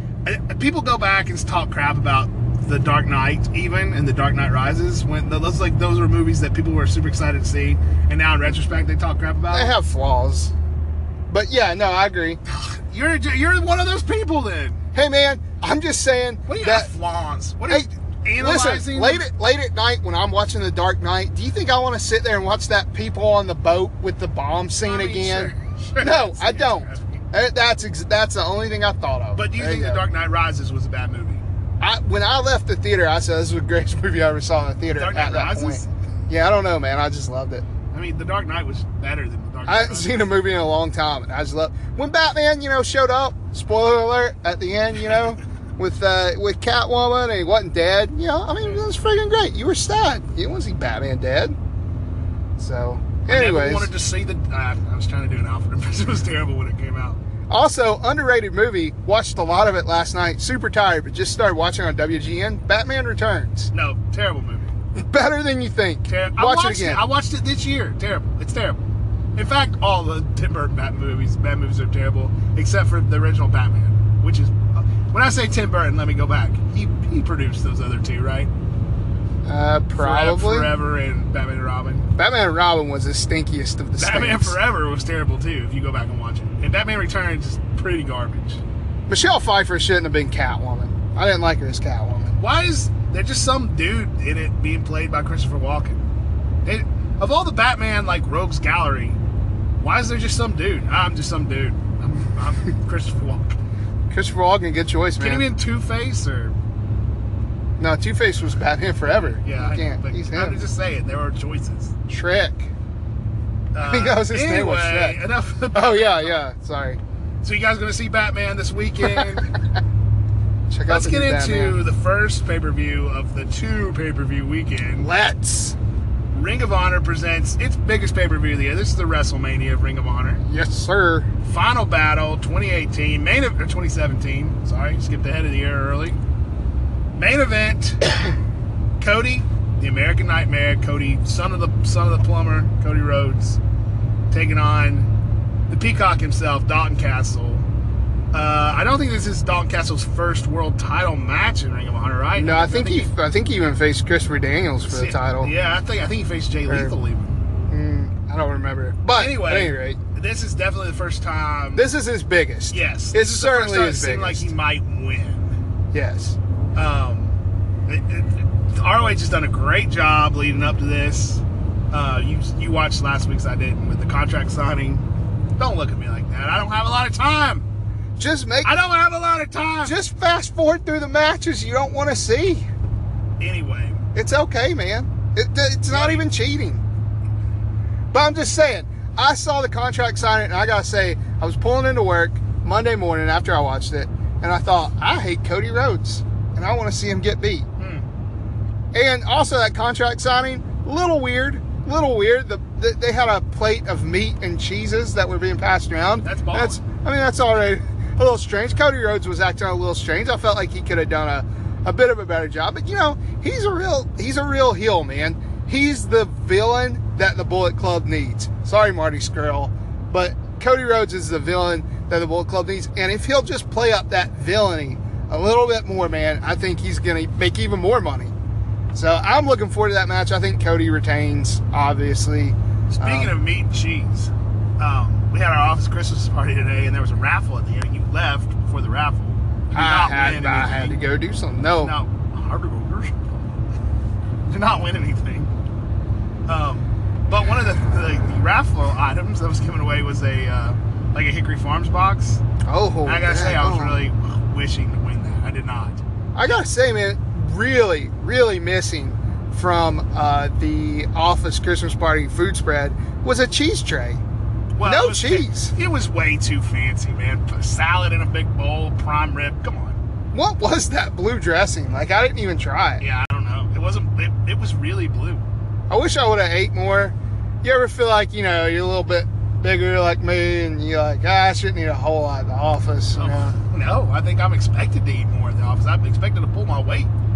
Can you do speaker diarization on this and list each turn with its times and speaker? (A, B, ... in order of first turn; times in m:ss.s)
0:00.2-0:09.8 A
0:09.5-0:10.5 B
0:11.3-0:12.4 B
0:12.5-0:14.8 A
0:14.9-0:16.9 B
0:16.5-0:19.3 A
0:18.4-0:30.0 B
0:24.8-0:27.2 A
0:29.4-0:31.4 A
0:31.8-0:37.7 B
0:35.0-0:35.9 A
0:37.9-0:40.3 A
0:39.7-0:51.6 B
0:48.6-0:48.8 A
0:52.6-0:53.9 B
0:53.3-0:57.2 A
0:57.5-1:03.7 B
1:03.7-1:04.7 A
1:05.0-1:07.0 B
1:06.1-1:08.8 A
1:09.4-1:18.5 A
1:19.4-1:20.7 B
1:20.0-1:22.1 A
1:22.2-1:24.6 B
1:24.0-1:28.6 A
1:29.1-1:32.4 B
1:32.4-1:36.0 A
1:36.6-1:39.2 A
1:39.8-1:43.6 A
1:44.1-1:45.5 B
1:45.2-1:46.6 A
1:47.8-1:50.6 B
1:49.4-1:52.0 A
1:52.1-1:52.7 B
1:53.7-1:56.4 A
1:53.8-1:55.2 B
1:55.7-1:57.0 B
1:57.4-1:59.5 A
1:59.0-1:59.4 B
2:00.7-2:01.8 B
2:00.9-2:05.1 A
2:05.0-2:05.8 B
2:06.3-2:10.4 A
2:10.4-2:11.3 B
2:11.4-2:16.2 A
2:17.2-2:18.1 A
2:19.0-2:23.6 A
2:24.3-2:25.1 A
2:25.7-2:27.7 A
2:28.3-2:33.1 A
2:32.4-2:35.5 B
2:34.8-2:37.4 A
2:36.7-2:37.0 B
2:37.7-2:40.0 B
2:39.1-2:41.9 A
2:41.8-2:44.5 B
2:42.7-2:45.6 A
2:45.9-2:46.4 B
2:46.8-2:55.1 A
2:55.6-2:57.7 A
2:58.2-2:58.7 B
2:58.6-3:00.0 A
2:59.8-3:02.7 B
3:03.4-3:04.0 A
3:04.2-3:06.8 B
3:05.9-3:06.3 A
3:08.1-3:17.7 B
3:17.8-3:18.0 A
3:18.9-3:48.3 B
3:26.2-3:26.8 A
3:48.9-3:53.3 B
3:52.9-4:01.0 A
3:59.7-4:01.9 B
4:01.8-4:03.5 A
4:04.5-4:05.5 A
4:06.5-4:12.4 A
4:12.6-4:14.0 B
4:13.0-4:16.0 A
4:16.4-4:24.2 B
4:24.8-4:30.0 A
4:24.8-4:25.7 B
4:30.3-4:33.0 B
4:33.0-4:35.4 A
4:35.9-4:43.6 B
4:43.1-4:47.1 A